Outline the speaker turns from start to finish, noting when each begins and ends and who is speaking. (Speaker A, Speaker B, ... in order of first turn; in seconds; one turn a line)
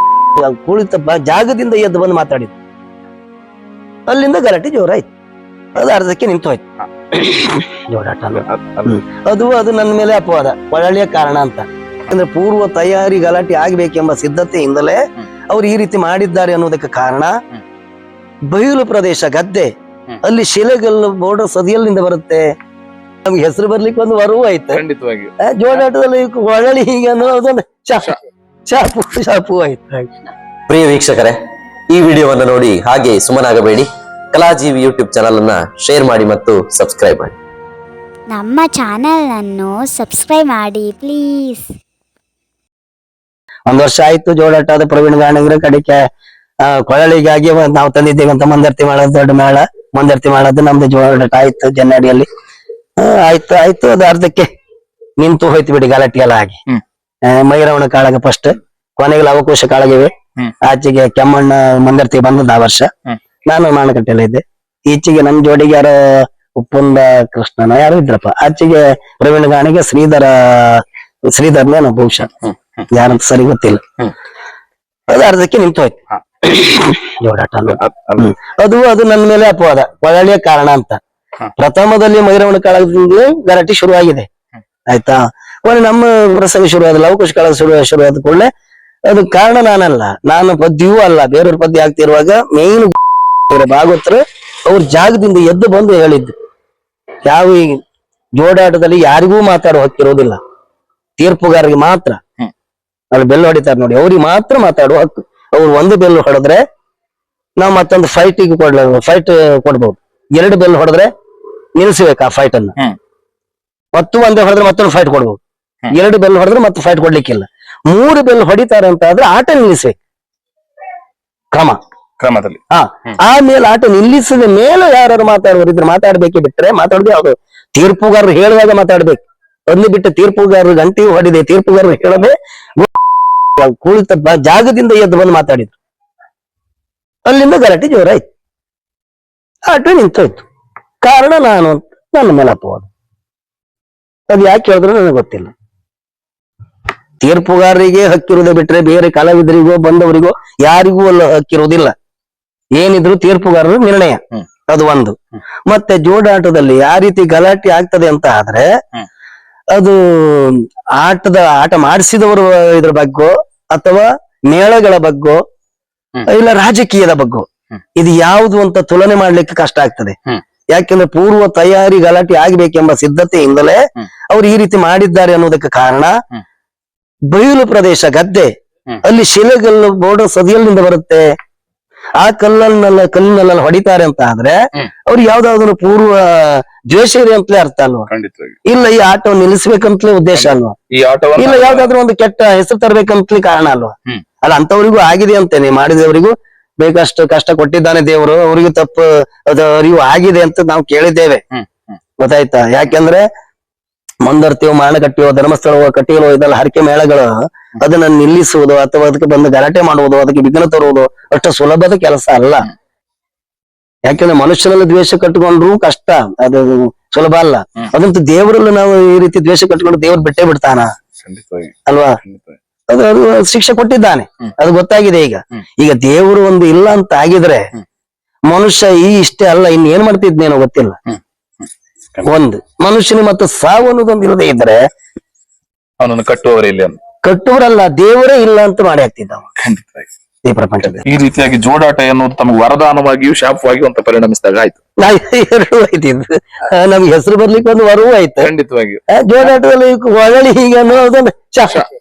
Speaker A: 0.3-2.5
Speaker A: 4.1-5.0
Speaker A: 5.7-6.6
Speaker A: 7.1-17.3
Speaker B: 8.5-8.8
Speaker A: 18.5-22.4
Speaker A: 23.2-24.8
Speaker B: 24.7-25.3
Speaker A: 25.4-28.1
Speaker A: 28.7-30.1
Speaker C: 30.7-31.4
Speaker C: 31.9-37.4
Speaker D: 38.3-41.6
Speaker A: 43.7-46.0
Speaker A: 46.6-52.3
Speaker A: 53.0-54.5
Speaker A: 55.2-56.6
Speaker A: 57.2-60.1
Speaker A: 60.6-62.9
Speaker A: 63.5-72.3
Speaker A: 72.9-73.8
Speaker A: 75.1-81.0
Speaker B: 77.9-78.2
Speaker A: 81.6-84.3
Speaker A: 84.9-88.5
Speaker A: 89.1-92.9
Speaker A: 93.5-96.3
Speaker A: 97.2-97.8
Speaker A: 98.3-100.4
Speaker A: 101.2-102.2
Speaker A: 103.1-106.6
Speaker A: 107.6-111.1
Speaker A: 111.8-112.7
Speaker A: 113.9-115.4
Speaker A: 115.9-119.9
Speaker A: 121.5-121.8
Speaker B: 122.2-122.6
Speaker A: 122.7-132.9
Speaker A: 133.6-135.8
Speaker A: 137.2-138.2
Speaker A: 139.7-140.4
Speaker A: 141.0-142.9
Speaker A: 144.3-145.5
Speaker A: 147.2-151.9
Speaker A: 152.8-155.2
Speaker A: 155.7-158.7
Speaker A: 159.7-165.4
Speaker A: 166.2-167.4
Speaker A: 168.0-170.2
Speaker A: 170.7-173.8
Speaker A: 174.3-176.1
Speaker A: 177.3-181.2
Speaker A: 182.2-188.1
Speaker B: 188.1-188.6
Speaker A: 188.6-190.7
Speaker B: 190.3-191.9
Speaker A: 191.4-201.4
Speaker B: 201.5-201.8
Speaker A: 202.2-203.2
Speaker A: 204.2-207.3
Speaker A: 207.8-212.7
Speaker A: 214.1-220.9
Speaker B: 221.2-222.6
Speaker A: 221.9-222.2
Speaker A: 222.9-227.7
Speaker A: 228.5-231.0
Speaker B: 231.1-231.7
Speaker A: 232.2-234.8
Speaker B: 236.0-237.0
Speaker A: 237.2-239.5
Speaker B: 239.6-240.1
Speaker A: 240.4-241.0
Speaker B: 240.8-244.8
Speaker A: 245.0-248.5
Speaker B: 248.4-249.0
Speaker A: 249.1-251.8